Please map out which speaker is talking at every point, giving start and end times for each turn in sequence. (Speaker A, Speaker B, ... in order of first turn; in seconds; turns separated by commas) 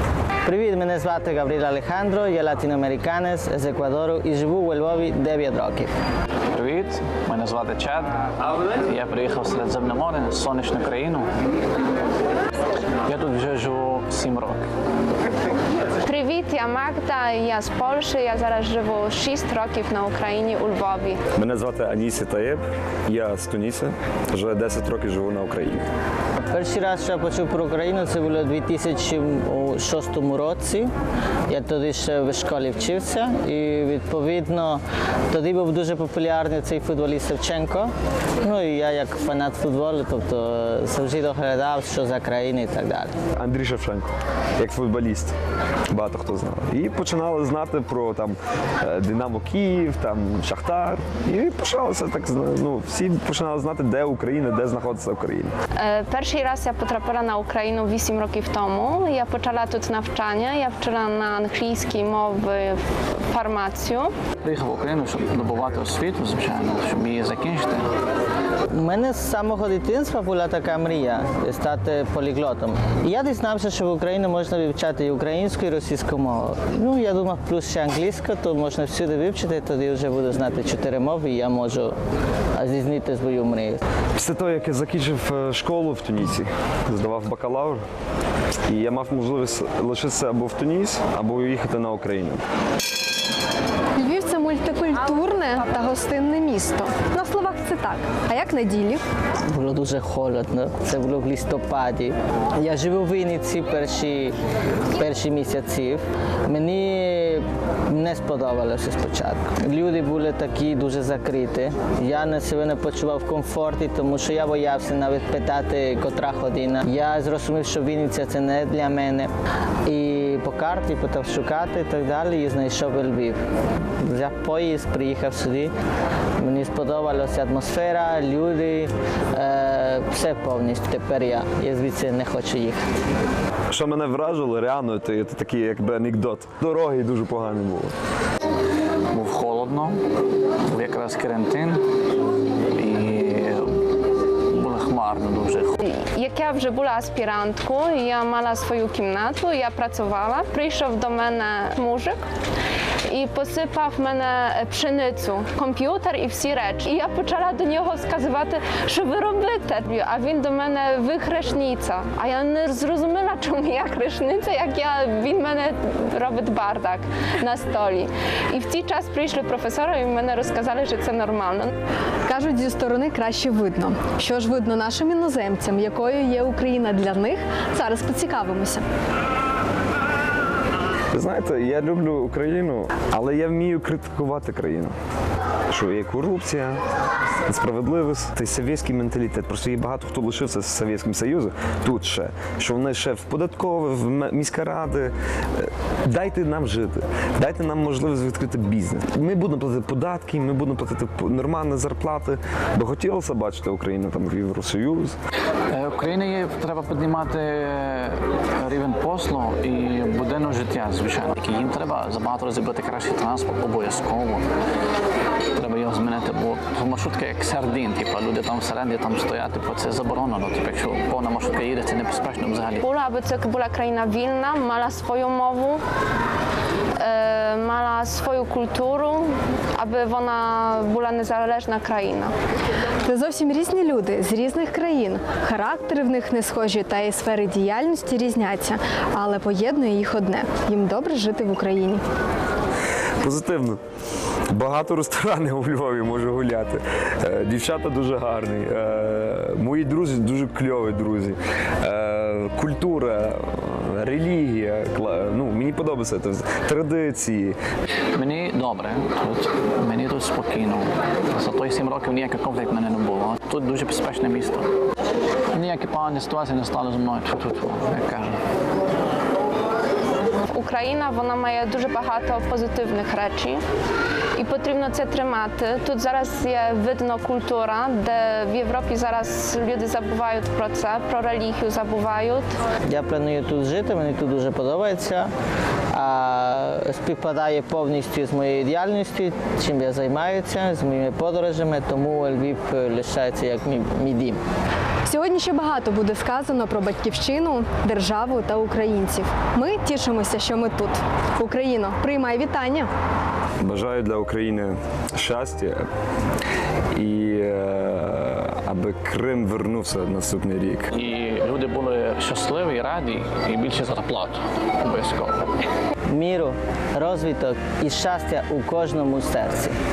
Speaker A: 0.5-5.9, Speaker B: 6.5-11.3, Speaker B: 13.1-14.7, Speaker C: 16.1-21.2, Speaker D: 21.4-25.9, Speaker A: 26.5-30.9, Speaker A: 31.5-43.1, Speaker D: 43.4-45.3, Speaker D: 45.9-55.5, Speaker C: 55.8-64.1, Speaker B: 64.4-67.9, Speaker A: 68.7-82.0, Speaker A: 82.5-83.8, Speaker D: 84.2-87.8, Speaker D: 88.7-92.4, Speaker E: 94.0-99.0, Speaker A: 99.5-104.4, Speaker A: 105.0-119.3, Speaker A: 119.9-123.4, Speaker A: 124.0-125.7, Speaker A: 126.4-132.9, Speaker D: 133.7-137.9, Speaker B: 139.1-140.0, Speaker B: 140.7-141.8, Speaker B: 142.7-143.8, Speaker B: 144.5-145.8, Speaker C: 145.8-152.2, Speaker C: 153.1-171.7, Speaker E: 172.3-178.8, Speaker D: 181.1-184.9, Speaker D: 185.7-186.8, Speaker D: 187.5-205.2, Speaker B: 205.7-214.5, Speaker B: 215.6-222.8, Speaker C: 222.8-225.8, Speaker C: 227.0-232.3, Speaker E: 233.1-242.0, Speaker D: 243.2-243.8, Speaker D: 244.5-257.6, Speaker B: 258.1-264.7, Speaker B: 265.5-268.4, Speaker C: 270.5-273.6, Speaker C: 274.4-282.5, Speaker A: 282.9-285.3, Speaker A: 285.9-294.4, Speaker E: 295.1-302.9, Speaker D: 303.6-305.9, Speaker D: 306.9-310.9, Speaker B: 310.9-315.5, Speaker A: 316.1-319.8